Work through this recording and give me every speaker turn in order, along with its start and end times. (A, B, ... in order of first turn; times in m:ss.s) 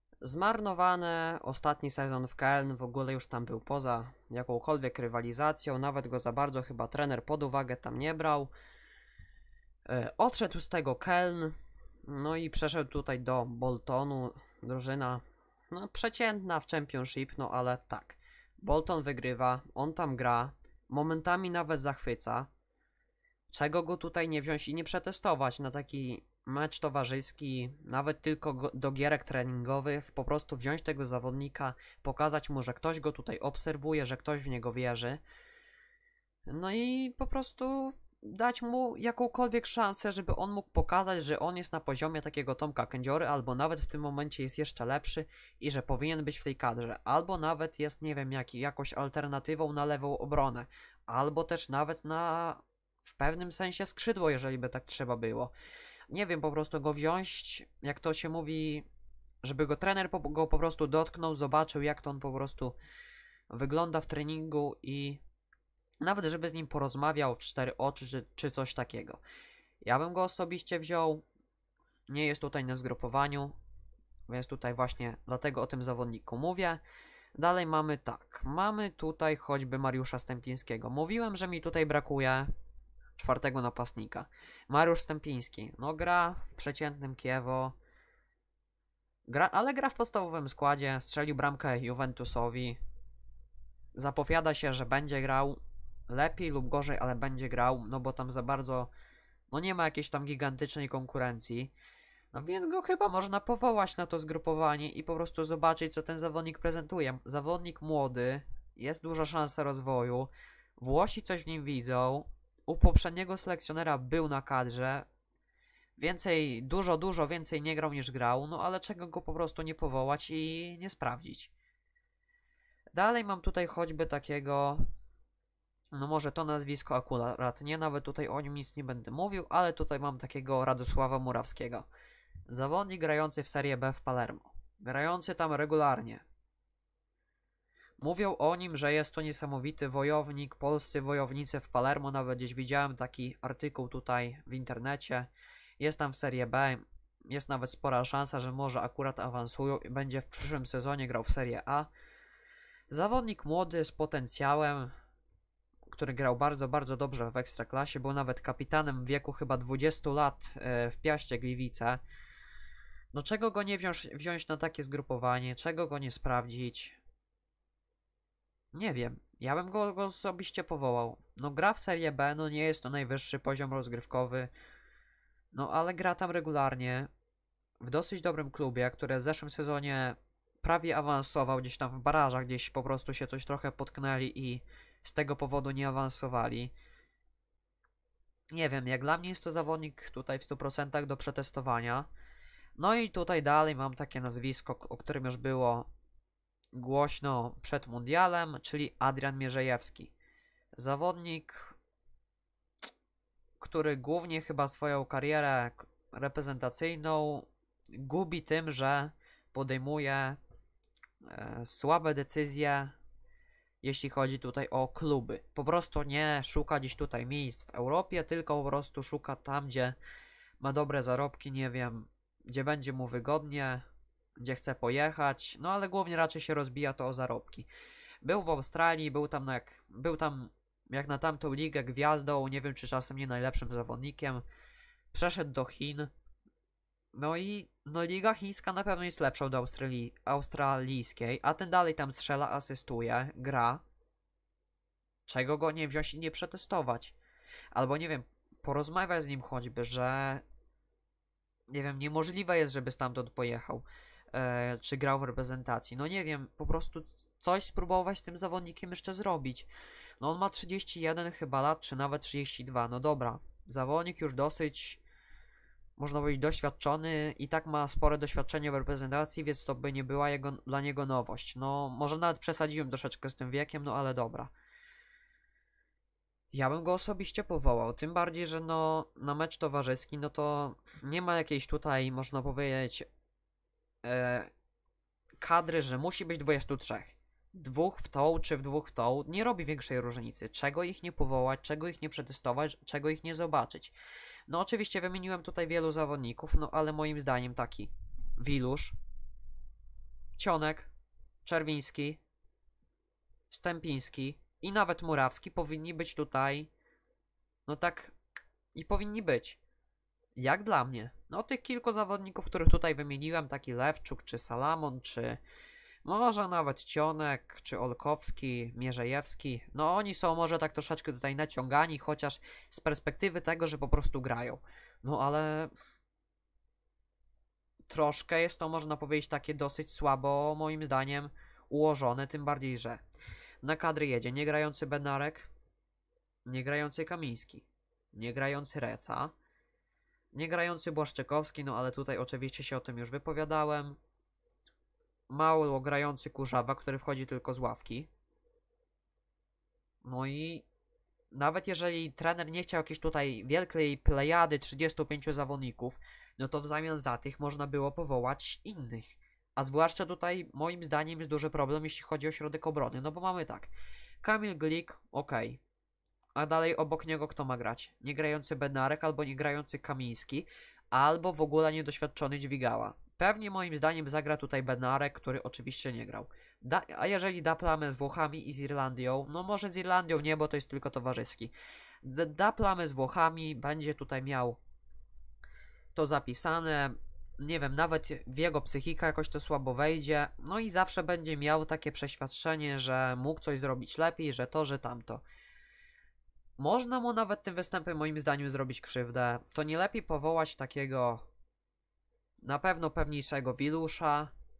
0:00.2-0:08.5 A
0:09.8-0:22.5 A
0:23.5-0:35.2 A
0:36.5-0:55.5 A
0:56.1-0:58.8 A
0:59.4-1:02.8 A
1:03.5-1:05.2 A
1:06.0-1:09.2 A
1:09.8-1:11.2 A
1:12.1-1:13.6 A
1:14.3-1:16.8 A
1:17.3-1:22.5 A
1:23.2-1:27.8 A
1:29.3-1:32.8 A
1:33.9-1:35.6 A
1:36.1-1:38.9 A
1:39.5-1:41.7 A
1:42.3-1:55.1 A
1:56.0-2:01.5 A
2:02.9-2:04.8 A
2:05.9-2:11.9 A
2:12.5-2:16.2 A
2:18.0-2:31.9 A
2:32.9-2:34.9 A
2:35.9-2:42.0 A
2:43.1-2:47.0 A
2:48.7-2:54.5 A
2:55.5-2:57.1 A
2:57.8-3:06.7 A
3:08.5-3:12.1 A
3:12.8-3:15.9 A
3:16.7-3:20.1 A
3:20.8-3:21.8 A
3:23.6-3:30.4 A
3:31.2-3:32.9 A
3:33.8-3:40.0 A
3:40.6-3:43.8 A
3:44.4-3:47.7 A
3:48.2-3:54.4 A
3:55.1-3:56.1 A
3:57.1-4:03.8 A
4:05.3-4:07.1 A
4:07.7-4:10.4 A
4:11.7-4:19.7 A
4:20.2-4:25.0 A
4:26.0-4:34.5 A
4:36.5-4:43.0 A
4:44.0-4:44.5 A
4:45.4-4:53.9 A
4:54.5-4:58.9 A
5:00.4-5:00.9 A
5:01.4-5:02.2 A
5:03.5-5:06.7 A
5:07.6-5:08.1 A
5:08.7-5:09.6 A
5:10.4-5:15.4 A
5:16.0-5:25.7 A
5:27.9-5:33.0 A
5:33.6-5:35.5 A
5:36.4-5:39.3 A
5:40.3-5:44.0 A
5:45.3-5:48.1 A
5:50.0-5:50.6 A
5:51.3-6:03.7 A
6:04.2-6:05.6 A
6:06.4-6:21.5 A
6:22.0-6:24.6 A
6:25.9-6:35.2 A
6:36.6-6:41.3 A
6:42.4-6:44.3 A